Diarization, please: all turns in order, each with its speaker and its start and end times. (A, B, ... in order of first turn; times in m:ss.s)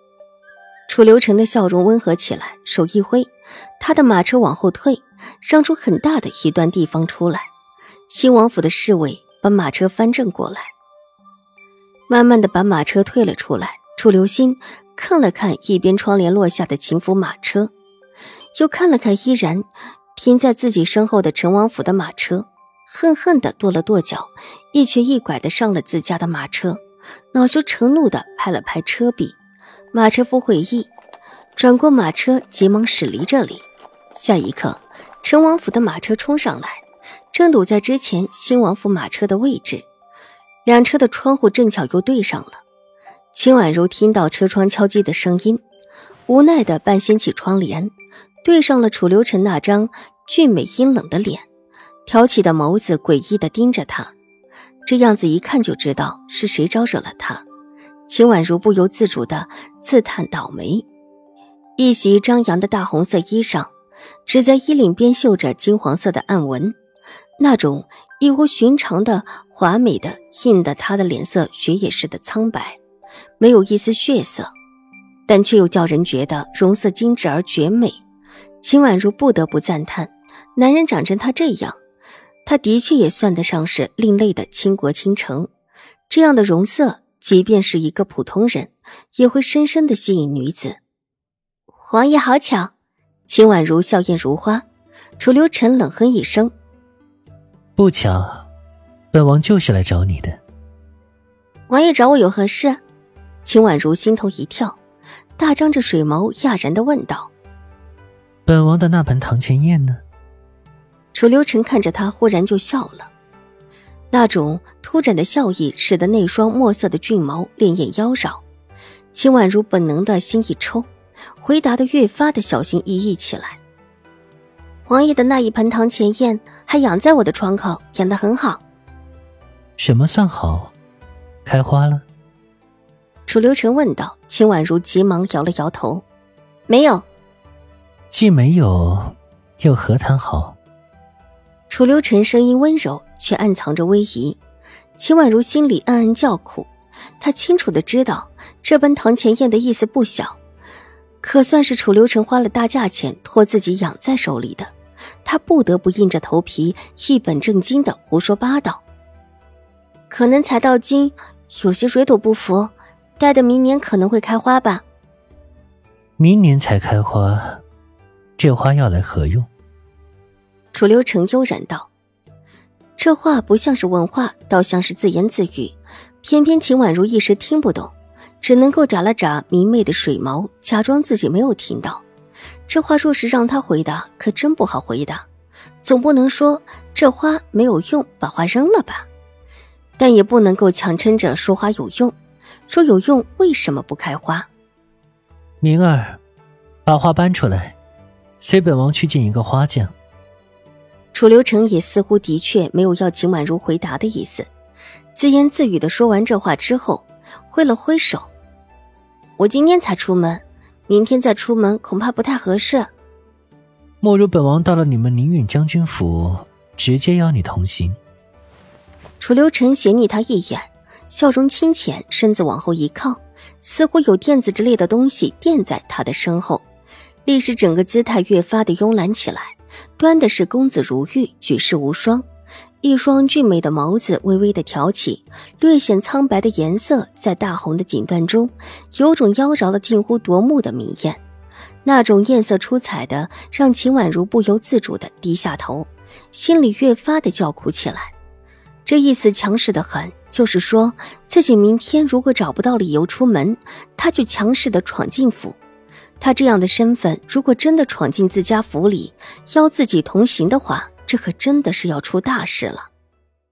0:00.9-0:07.5 A
0:08.1-0:10.7 A
0:12.1-0:17.7 A
0:18.6-0:26.8 A
0:27.3-0:29.4 A
0:29.9-0:30.9 A
0:31.6-0:39.8 A
0:40.6-0:42.6 A
0:43.3-0:45.6 A
0:46.3-0:51.4 A
0:52.0-0:54.1 A
0:54.8-0:57.4 A
0:58.1-1:00.9 A
1:01.8-1:03.7 A
1:04.2-1:06.8 A
1:07.4-1:12.8 A
1:13.4-1:14.5 A
1:15.3-1:18.0 A
1:18.6-1:21.8 A
1:22.4-1:25.5 A
1:26.1-1:30.8 A
1:31.8-1:32.7 A
1:33.3-1:34.6 A
1:35.2-1:36.5 A
1:37.8-1:38.4 B
1:39.1-1:40.4 B
1:41.7-1:42.8 A
1:43.4-1:44.8 A
1:45.4-1:47.3 A
1:48.4-1:50.0 B
1:51.1-1:53.1 A
1:54.1-1:58.4 A
1:59.1-2:00.9 A
2:01.4-2:03.6 A
2:04.8-2:08.6 A
2:09.8-2:10.7 B
2:11.4-2:12.0 B
2:13.3-2:16.0 A
2:16.7-2:17.0 A
2:18.1-2:20.6 B
2:21.7-2:24.4 A
2:25.0-2:26.7 A
2:27.2-2:30.4 A
2:31.2-2:34.7 A
2:35.2-2:38.8 A
2:40.1-2:44.8 A
2:46.2-2:47.6 B
2:48.4-2:49.5 B
2:50.7-2:51.9 A
2:53.0-3:02.0 A
3:02.7-3:05.2 A
3:05.8-3:09.1 A
3:10.0-3:12.1 A
3:12.7-3:14.5 A
3:15.6-3:16.2 B
3:16.8-3:17.8 B
3:18.4-3:19.9 B
3:21.1-3:24.5 A
3:25.1-3:28.3 A
3:29.4-3:32.9 A
3:34.0-3:38.0 B
3:39.2-3:46.6 A
3:47.2-3:52.2 A
3:52.8-4:01.2 A
4:01.8-4:08.1 A
4:08.8-4:15.6 A
4:16.2-4:22.9 A